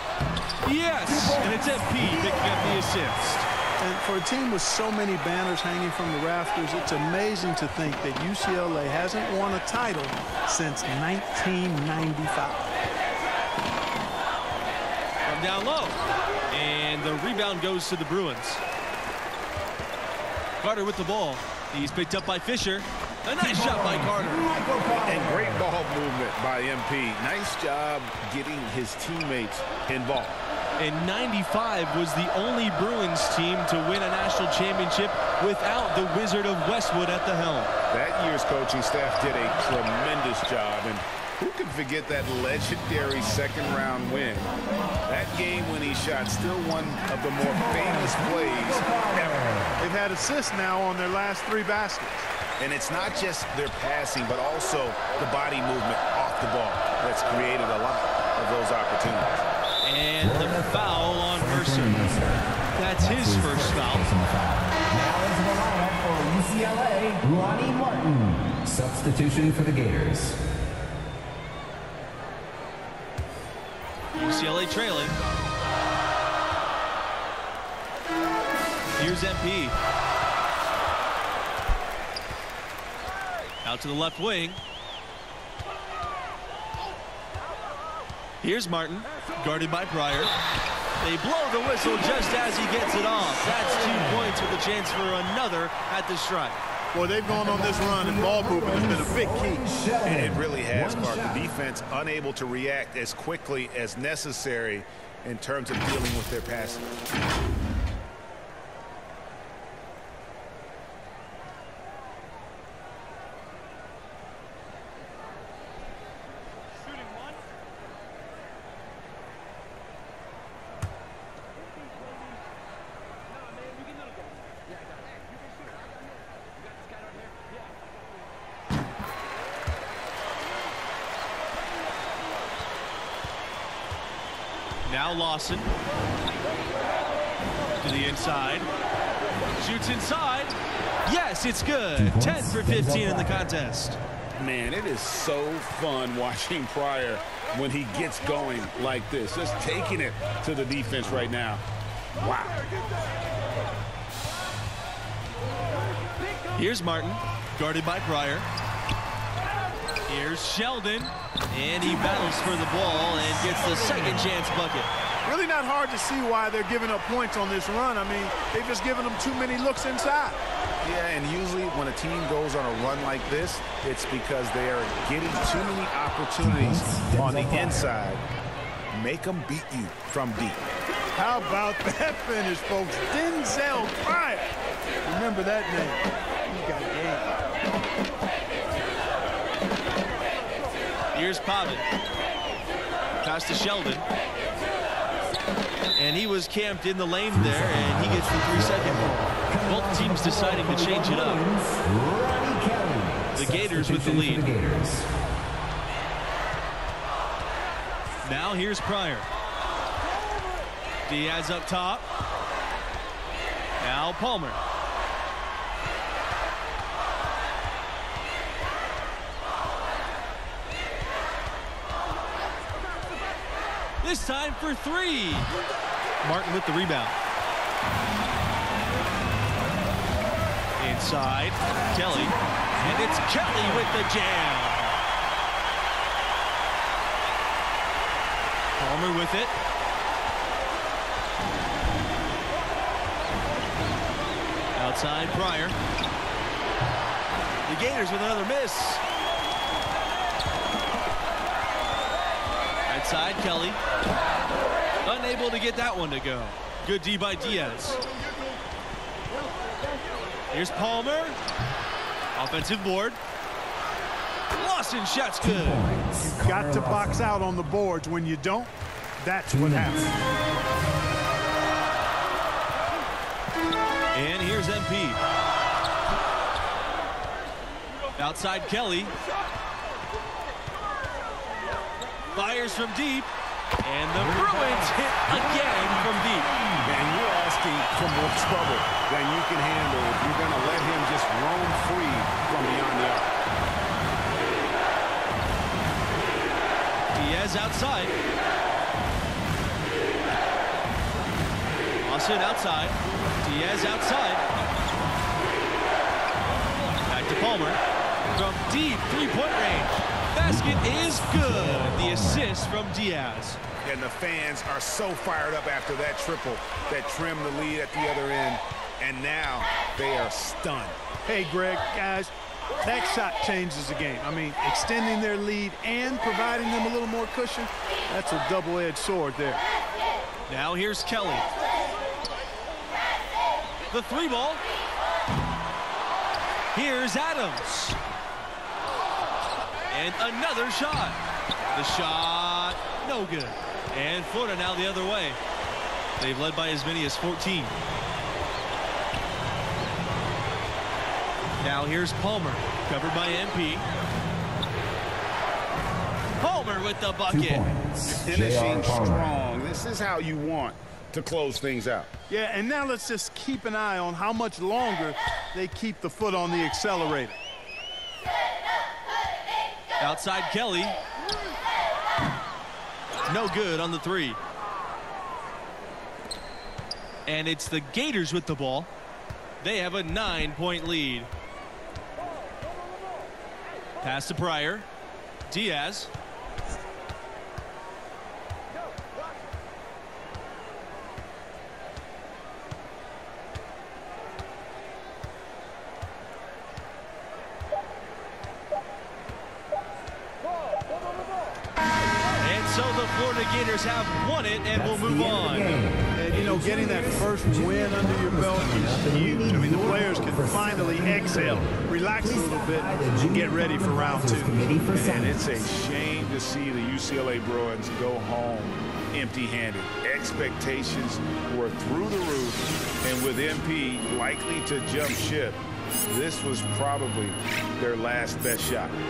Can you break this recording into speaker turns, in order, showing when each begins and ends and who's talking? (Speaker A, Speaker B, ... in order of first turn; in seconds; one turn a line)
Speaker A: 0.6-3.5
Speaker B: 1.1-3.0
Speaker C: 3.8-12.7
Speaker A: 15.3-16.0
Speaker A: 16.5-18.6
Speaker A: 20.6-24.5
Speaker B: 23.4-25.7
Speaker D: 25.0-30.4
Speaker A: 30.8-37.7
Speaker D: 37.9-44.5
Speaker D: 45.1-49.4
Speaker B: 47.4-49.8
Speaker C: 49.8-52.3
Speaker D: 52.6-59.5
Speaker A: 59.8-62.1
Speaker B: 60.2-62.4
Speaker A: 62.8-64.1
Speaker B: 63.0-70.4
Speaker A: 74.1-75.2
Speaker A: 79.0-79.8
Speaker A: 83.6-84.6
Speaker A: 88.4-90.3
Speaker A: 91.0-96.6
Speaker B: 93.3-94.4
Speaker C: 96.9-99.7
Speaker B: 97.3-101.5
Speaker D: 100.0-106.8
Speaker A: 134.9-135.7
Speaker A: 137.8-138.7
Speaker A: 139.6-144.0
Speaker B: 141.9-143.4
Speaker D: 144.4-151.6
Speaker D: 152.2-152.7
Speaker A: 156.6-158.5
Speaker A: 160.1-164.9
Speaker C: 165.2-170.4
Speaker D: 170.8-178.2
Speaker B: 176.4-177.8
Speaker D: 178.9-180.7
Speaker C: 181.1-184.5
Speaker C: 185.1-187.4
Speaker A: 191.1-191.9
Speaker A: 193.2-194.1
Speaker A: 196.0-201.4
Speaker B: 197.3-205.1
Speaker A: 203.3-204.4
Speaker A: 208.2-209.3
Speaker A: 211.1-212.1
Speaker A: 213.8-214.6
Speaker A: 224.0-225.5
Speaker A: 226.2-227.2
Speaker A: 230.8-234.9
Speaker A: 238.8-239.5
Speaker A: 244.8-245.8
Speaker A: 247.7-249.0
Speaker A: 252.9-253.8
Speaker A: 255.0-258.0
Speaker A: 260.5-261.4
Speaker A: 262.4-263.2
Speaker A: 264.5-265.9
Speaker B: 265.4-267.2
Speaker C: 266.2-270.1
Speaker B: 269.5-270.1
Speaker A: 274.1-275.2
Speaker A: 278.2-279.1
Speaker A: 282.3-283.3
Speaker A: 283.8-286.5
Speaker B: 284.1-287.0
Speaker D: 286.9-293.4
Speaker A: 297.1-298.1
Speaker A: 302.0-304.4
Speaker A: 307.1-307.8
Speaker A: 308.3-313.6
Speaker B: 310.4-312.5
Speaker D: 313.8-321.0
Speaker C: 321.2-322.3
Speaker C: 322.8-329.6
Speaker A: 330.5-331.5
Speaker A: 333.9-334.6
Speaker A: 336.7-338.0
Speaker A: 339.9-341.2
Speaker A: 341.7-345.4
Speaker A: 346.2-347.8
Speaker A: 351.6-353.8
Speaker A: 356.4-357.6
Speaker B: 357.3-359.3
Speaker D: 358.2-362.1
Speaker C: 362.3-367.4
Speaker A: 370.0-371.0
Speaker A: 373.3-374.4
Speaker A: 377.3-378.9
Speaker A: 379.6-381.3
Speaker A: 384.0-384.9
Speaker A: 385.5-386.1
Speaker A: 402.4-405.8
Speaker B: 404.7-415.4
Speaker C: 406.2-414.7
Speaker D: 414.9-429.0